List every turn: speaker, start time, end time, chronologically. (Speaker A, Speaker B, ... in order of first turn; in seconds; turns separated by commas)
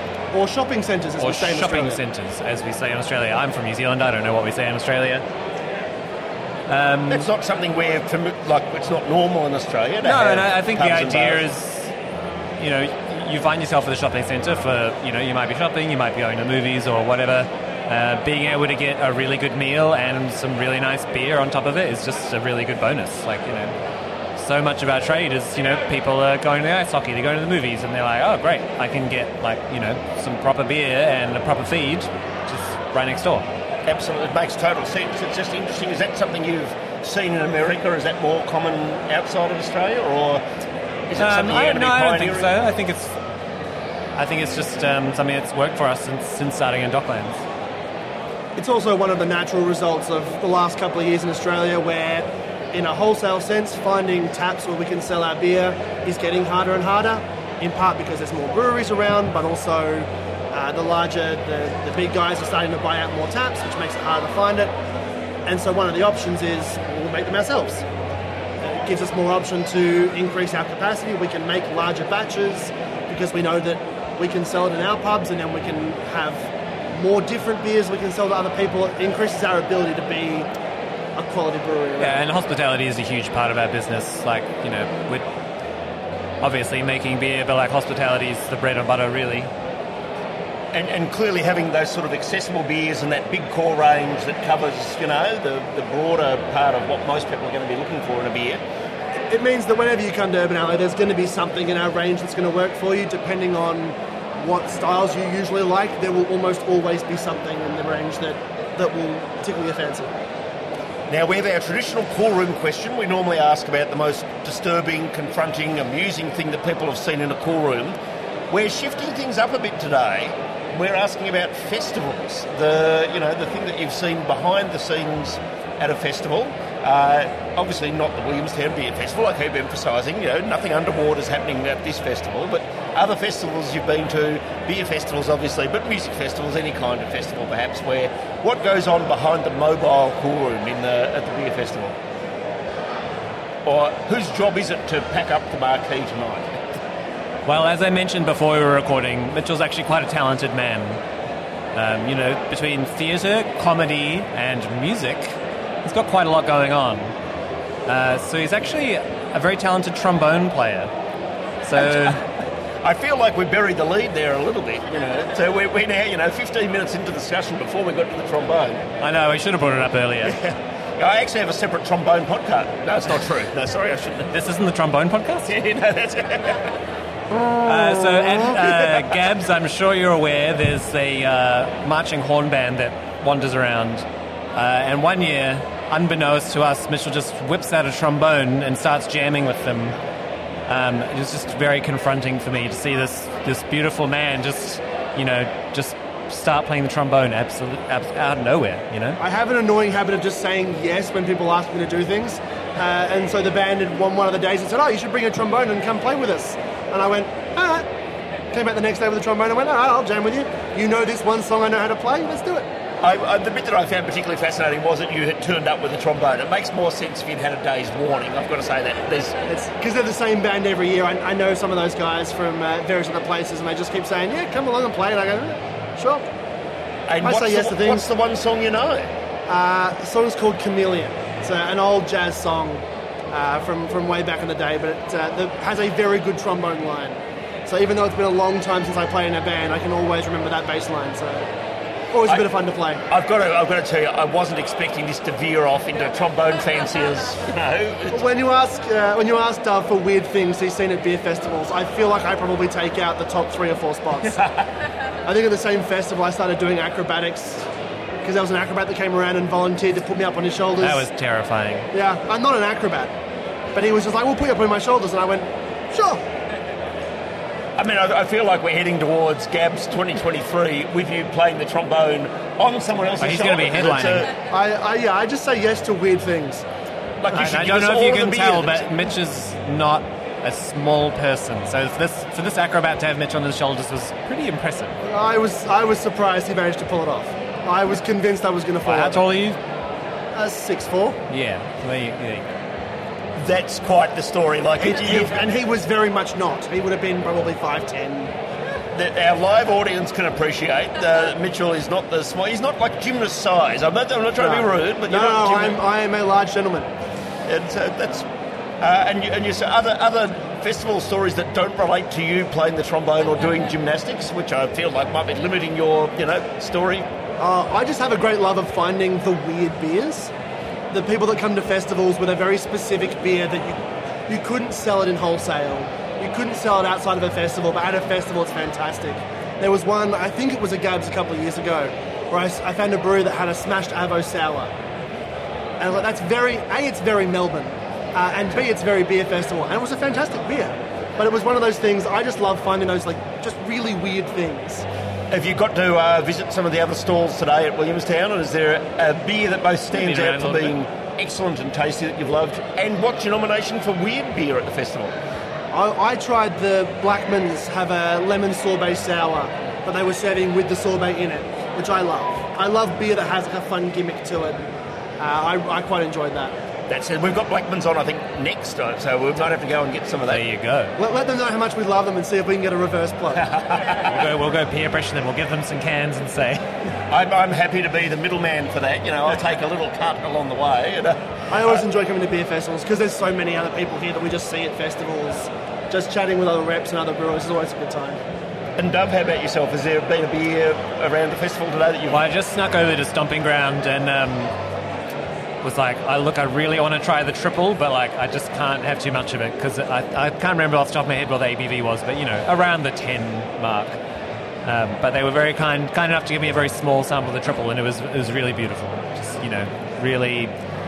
Speaker A: 0.3-2.0, Speaker B: 1.2-5.2, Speaker B: 6.7-7.3, Speaker C: 7.1-11.4, Speaker B: 10.0-11.9, Speaker B: 12.6-23.7, Speaker B: 24.4-33.5, Speaker C: 33.9-40.4, Speaker C: 41.1-42.5, Speaker B: 41.2-43.2, Speaker B: 44.2-47.4, Speaker A: 48.6-64.7, Speaker A: 65.5-67.9, Speaker A: 68.6-80.5, Speaker A: 81.2-82.3, Speaker B: 82.0-85.2, Speaker B: 86.4-89.5, Speaker C: 90.7-98.6, Speaker A: 99.3-110.1, Speaker C: 111.1-118.0, Speaker C: 118.5-142.0, Speaker C: 143.7-146.6, Speaker B: 147.5-151.0, Speaker B: 151.7-157.1, Speaker B: 157.9-160.9, Speaker B: 161.6-162.2, Speaker C: 161.8-162.3, Speaker C: 162.8-168.8, Speaker B: 169.0-170.4, Speaker C: 170.3-174.3, Speaker B: 174.3-175.5, Speaker C: 175.5-176.6, Speaker B: 177.6-190.0, Speaker B: 190.7-199.2, Speaker A: 199.2-207.9, Speaker A: 208.5-212.7, Speaker C: 213.0-219.4, Speaker A: 219.5-226.3, Speaker C: 227.1-229.1, Speaker A: 227.2-228.1, Speaker A: 229.5-241.5, Speaker A: 242.1-243.0, Speaker C: 243.1-248.2, Speaker A: 248.1-254.4, Speaker C: 254.2-254.7, Speaker A: 255.2-257.7, Speaker A: 258.2-261.1, Speaker B: 260.8-261.9, Speaker A: 261.9-263.1, Speaker A: 263.7-266.2, Speaker C: 267.8-274.3, Speaker B: 273.2-274.3, Speaker A: 274.5-276.6, Speaker C: 277.2-278.9, Speaker B: 277.3-285.0, Speaker A: 285.0-289.3, Speaker B: 288.8-289.6, Speaker A: 290.3-291.2, Speaker B: 291.3-292.5, Speaker C: 293.4-295.4, Speaker A: 294.8-298.3, Speaker C: 298.9-305.8, Speaker A: 304.4-306.9, Speaker C: 307.5-308.3, Speaker C: 308.8-317.1, Speaker A: 317.4-320.3, Speaker A: 320.9-334.7, Speaker A: 335.8-344.9, Speaker C: 345.3-355.1, Speaker B: 349.9-350.7, Speaker A: 355.7-364.6, Speaker A: 365.2-366.6, Speaker C: 366.9-370.4, Speaker B: 370.3-371.0, Speaker A: 371.0-373.5, Speaker C: 373.3-374.2, Speaker B: 374.0-376.7, Speaker C: 377.1-381.8, Speaker A: 381.5-388.2, Speaker C: 388.8-392.3, Speaker B: 392.1-394.5, Speaker B: 395.6-404.0, Speaker B: 404.6-410.5